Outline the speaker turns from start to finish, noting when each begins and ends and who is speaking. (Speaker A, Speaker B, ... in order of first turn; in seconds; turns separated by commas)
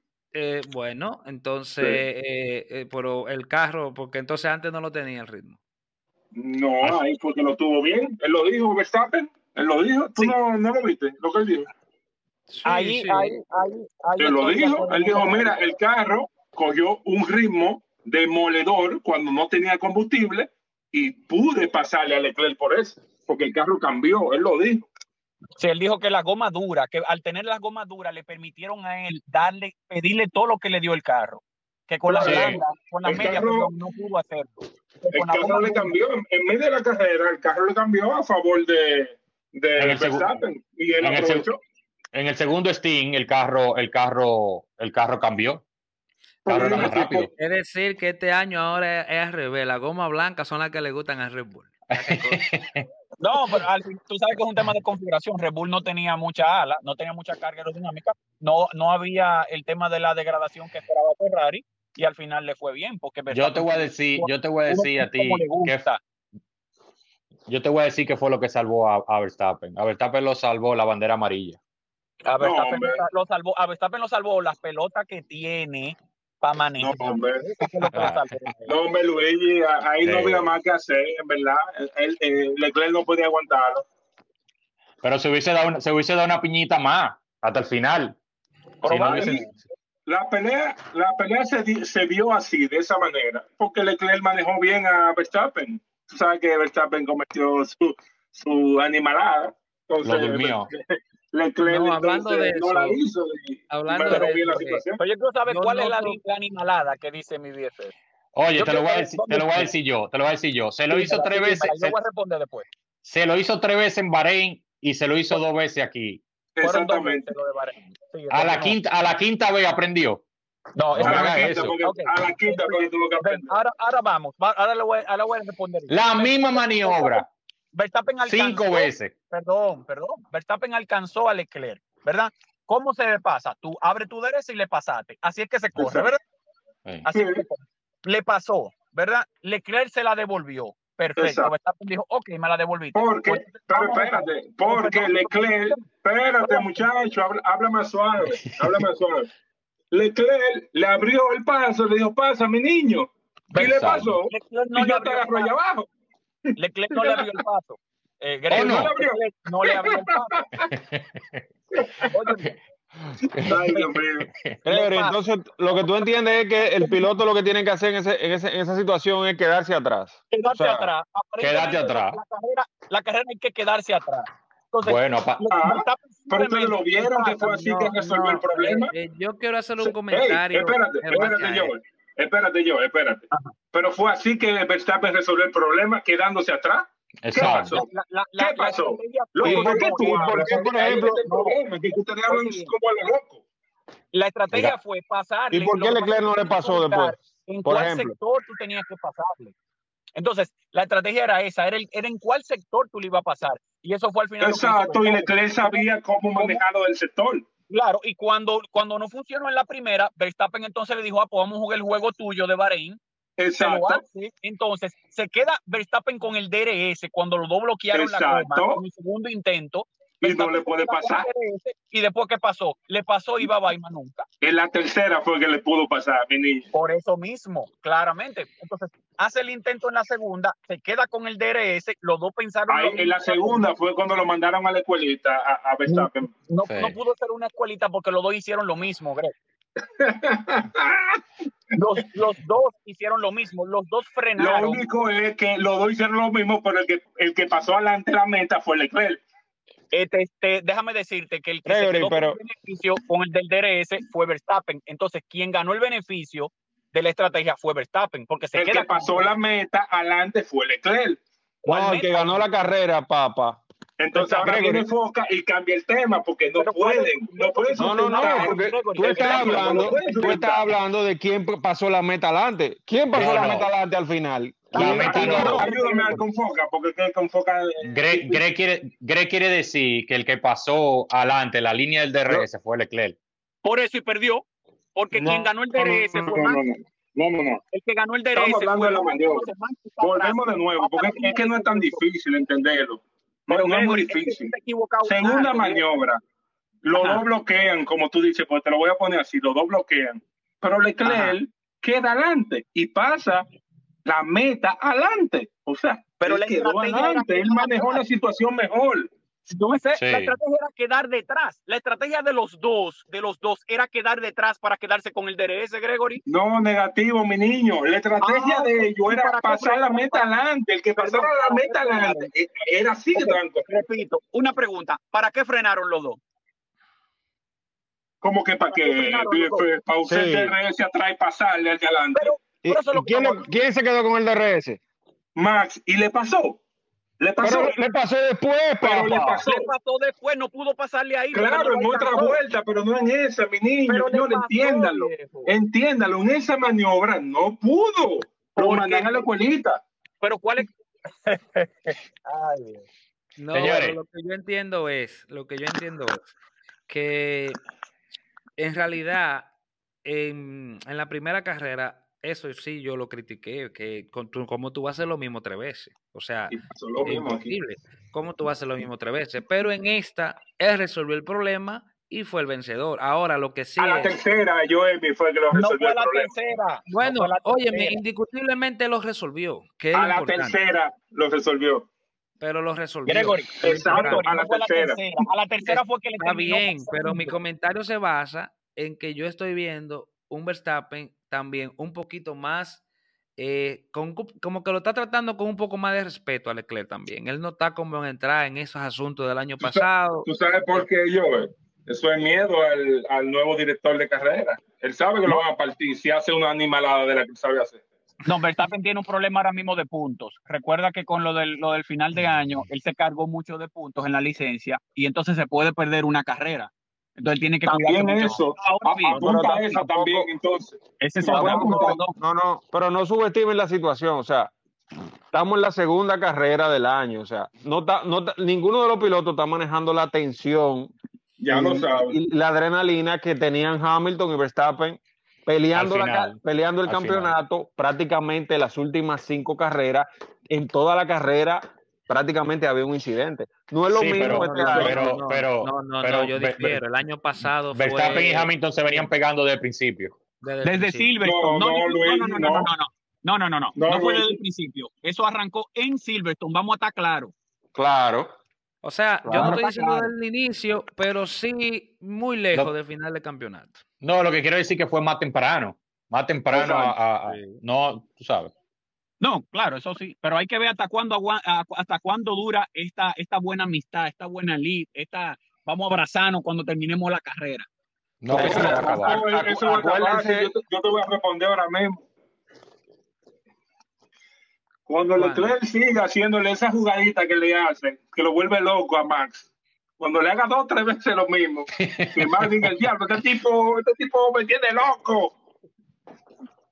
Speaker A: 0.3-5.6, Speaker B: 1.8-2.0, Speaker B: 6.3-11.7, Speaker A: 12.5-13.4, Speaker C: 12.6-15.6, Speaker B: 14.2-24.9, Speaker C: 25.6-35.9, Speaker B: 32.1-33.7, Speaker D: 32.2-32.6, Speaker B: 35.1-41.6, Speaker D: 39.8-40.4, Speaker D: 41.0-41.5, Speaker D: 42.1-45.6, Speaker B: 46.5-47.3, Speaker D: 46.5-47.3, Speaker A: 46.5-52.5, Speaker D: 51.9-52.9, Speaker C: 53.2-66.0, Speaker D: 63.3-65.8, Speaker D: 67.5-71.6, Speaker C: 72.2-78.8, Speaker B: 72.4-73.0, Speaker B: 76.8-78.1, Speaker D: 77.9-78.5, Speaker B: 78.7-83.8, Speaker D: 80.0-80.5, Speaker D: 85.0-88.2, Speaker D: 88.8-89.5, Speaker C: 88.8-89.5, Speaker B: 89.1-89.4, Speaker B: 90.1-100.8, Speaker D: 100.0-100.7, Speaker B: 101.3-105.0, Speaker A: 101.6-103.0, Speaker A: 103.7-104.8, Speaker C: 105.0-107.9, Speaker A: 105.5-106.2, Speaker D: 108.3-112.0, Speaker C: 108.5-109.7, Speaker C: 110.9-112.7, Speaker D: 113.0-116.2, Speaker B: 116.6-117.3, Speaker C: 116.6-118.8, Speaker D: 118.3-120.2, Speaker C: 120.8-136.2, Speaker D: 120.9-121.7, Speaker B: 121.0-123.5, Speaker D: 125.9-127.3, Speaker D: 128.2-129.1, Speaker B: 135.8-136.1, Speaker C: 137.0-145.9, Speaker B: 137.1-137.4, Speaker B: 141.2-141.5, Speaker B: 142.9-149.3, Speaker C: 146.4-146.8, Speaker B: 149.9-155.9, Speaker D: 153.6-154.1, Speaker C: 154.2-155.5, Speaker B: 156.5-157.4, Speaker C: 156.6-160.4, Speaker B: 158.5-160.7, Speaker D: 158.5-158.9, Speaker D: 160.7-161.4, Speaker B: 161.8-162.4, Speaker C: 162.1-162.5, Speaker D: 163.1-163.5, Speaker B: 163.4-164.3, Speaker C: 163.5-163.9, Speaker D: 164.2-164.6, Speaker C: 164.6-165.1, Speaker E: 164.7-170.9, Speaker C: 170.3-178.8, Speaker D: 171.4-172.2, Speaker D: 174.8-175.4, Speaker B: 175.6-178.9, Speaker A: 177.9-181.7, Speaker B: 179.8-193.4, Speaker D: 187.2-187.8, Speaker C: 187.4-192.7, Speaker E: 189.4-191.2, Speaker C: 194.1-199.5, Speaker E: 195.5-198.2, Speaker C: 200.1-206.6, Speaker B: 204.4-207.5, Speaker C: 207.7-213.0, Speaker B: 213.4-214.0, Speaker C: 213.6-224.3, Speaker B: 217.9-218.8, Speaker B: 220.2-221.3, Speaker B: 224.4-226.7, Speaker C: 226.7-233.7, Speaker B: 232.7-236.3, Speaker C: 235.9-239.3, Speaker D: 236.6-236.9, Speaker B: 240.0-241.2, Speaker C: 241.7-244.8, Speaker B: 244.4-249.2, Speaker C: 249.9-259.3, Speaker E: 251.7-252.4, Speaker B: 258.6-261.2, Speaker C: 261.6-262.4, Speaker E: 261.7-263.6, Speaker B: 264.0-270.7, Speaker C: 264.2-264.6, Speaker E: 264.2-264.9, Speaker C: 266.6-270.3, Speaker E: 267.8-275.7, Speaker D: 273.1-273.7, Speaker C: 274.7-276.2, Speaker D: 274.7-275.7, Speaker B: 275.0-278.4, Speaker D: 277.9-283.2, Speaker C: 283.6-286.6, Speaker B: 285.1-287.6, Speaker C: 287.7-292.0, Speaker B: 288.3-296.2, Speaker C: 293.5-295.9, Speaker B: 296.8-303.4, Speaker C: 296.9-297.2, Speaker C: 301.1-301.4, Speaker B: 304.1-309.1, Speaker C: 306.2-308.0, Speaker C: 309.5-316.2, Speaker D: 309.9-310.4, Speaker B: 316.3-323.7, Speaker C: 318.2-320.2, Speaker C: 321.0-322.3, Speaker C: 323.1-326.2, Speaker B: 328.2-332.4, Speaker C: 328.7-329.6, Speaker E: 330.1-330.6, Speaker C: 332.1-333.5, Speaker E: 332.6-334.8, Speaker B: 335.4-336.6, Speaker B: 337.2-337.8, Speaker E: 337.4-339.4, Speaker B: 338.8-339.7, Speaker C: 339.2-342.4, Speaker B: 341.3-349.8, Speaker C: 343.9-345.6, Speaker C: 348.6-349.3, Speaker C: 350.2-352.9, Speaker A: 353.4-356.2, Speaker D: 353.5-354.0, Speaker A: 356.9-357.6, Speaker A: 358.6-359.5, Speaker A: 360.1-374.2, Speaker B: 366.5-367.6, Speaker B: 373.8-376.3, Speaker C: 375.5-378.0, Speaker A: 376.9-380.6, Speaker B: 379.9-381.9, Speaker A: 382.4-384.3, Speaker C: 383.1-387.4, Speaker B: 383.6-385.1, Speaker A: 385.6-392.8, Speaker A: 393.4-400.3, Speaker B: 399.6-407.8, Speaker C: 408.2-420.3, Speaker B: 417.6-422.0, Speaker C: 421.0-422.2, Speaker E: 421.3-424.5, Speaker E: 425.3-430.9, Speaker B: 431.4-432.2, Speaker E: 431.5-445.2, Speaker D: 435.7-437.4, Speaker D: 443.9-446.8, Speaker A: 444.2-449.1, Speaker D: 447.7-450.2, Speaker A: 450.4-451.1, Speaker C: 450.6-457.3, Speaker B: 451.2-452.7, Speaker B: 453.8-454.4, Speaker E: 457.7-458.3, Speaker A: 458.8-463.8, Speaker E: 459.2-459.7, Speaker C: 459.3-460.1, Speaker D: 464.0-468.5, Speaker E: 466.5-466.9, Speaker C: 469.2-477.7, Speaker D: 478.2-479.2, Speaker E: 478.3-480.5, Speaker B: 478.4-482.1, Speaker B: 484.9-489.5, Speaker A: 485.2-485.5, Speaker B: 490.0-495.4, Speaker D: 491.8-492.9